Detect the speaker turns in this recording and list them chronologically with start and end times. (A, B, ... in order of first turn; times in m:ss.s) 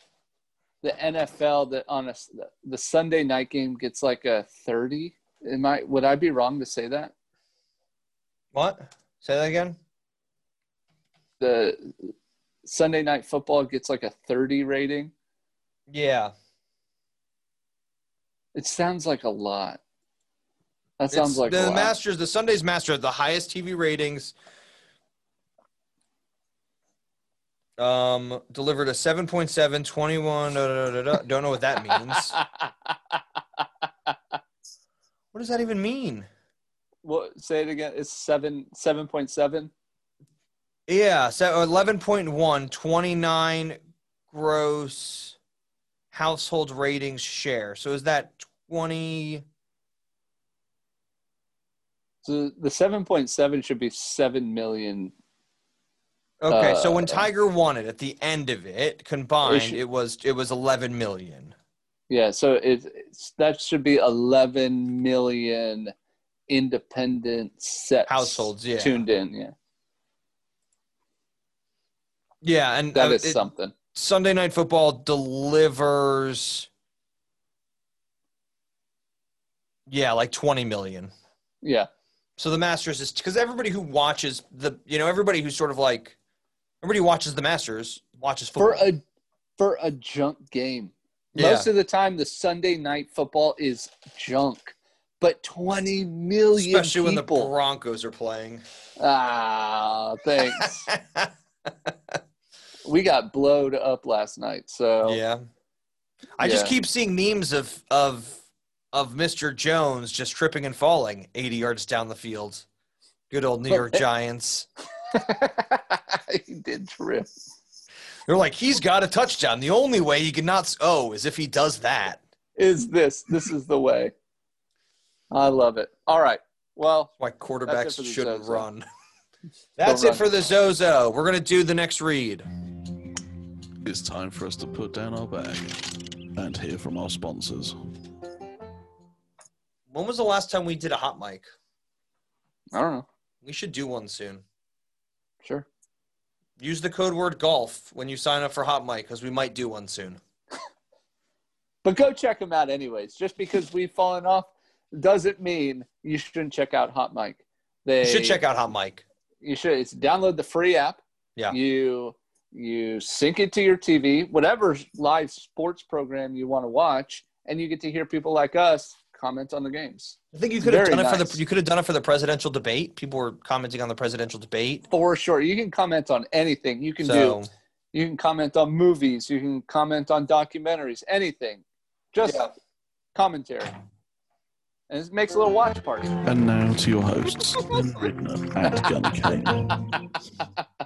0:00.8-0:07.1 A
0:08.5-0:09.8 B
0:11.4-0:12.1 A
0:12.6-0:15.1 A
0:15.9-0:16.3 B
0:18.6-0:19.8 A
0:21.0-0:22.0 A
0:21.1-0:24.4 B
0:27.8-0:32.4 B
0:32.1-0:34.2 A
0:35.3-0:36.3 B
0:37.0-0:39.7 A
0:40.9-0:43.8 B
0:44.3-0:45.4 B
0:46.1-0:49.4 B
0:52.2-0:55.1 A
0:56.4-1:01.5 B
0:56.5-0:57.2 A
0:59.4-0:59.8 A
1:02.1-1:05.9 A
1:06.5-1:09.6 A
1:08.1-1:09.0 B
1:12.4-1:13.4 B
1:13.0-1:13.7 A
1:13.9-1:16.7 B
1:19.9-1:21.1 B
1:21.6-1:21.9 A
1:22.4-1:26.2 B
1:26.8-1:28.9 B
1:28.6-1:29.0 A
1:29.6-1:37.5 A
1:31.4-1:31.7 B
1:36.6-1:38.6 B
1:39.0-1:40.9 A
1:40.4-1:42.2 B
1:42.8-1:45.2 A
1:45.0-1:45.4 B
1:46.4-1:52.7 B
1:46.4-1:46.8 A
1:53.3-1:54.7 B
1:53.7-1:54.0 A
1:55.1-1:57.3 A
1:58.3-2:02.2 B
2:02.6-2:04.1 A
2:05.3-2:07.1 A
2:07.2-2:08.8 B
2:07.7-2:08.7 A
2:09.8-2:12.5 B
2:09.8-2:10.2 A
2:13.8-2:17.8 C
2:19.9-2:21.4 B
2:22.7-2:23.1 A
2:23.4-2:24.4 B
2:25.4-2:25.7 A
2:26.6-2:30.2 B
2:31.8-2:38.4 A
2:38.0-2:39.0 B
2:39.4-2:51.4 A
2:50.3-2:54.9 B
2:54.9-2:57.4 A
2:57.0-2:57.5 B
2:57.9-3:02.5 A
3:02.2-3:02.5 B
3:03.2-3:03.8 A
3:04.9-3:06.1 A
3:06.2-3:10.1 C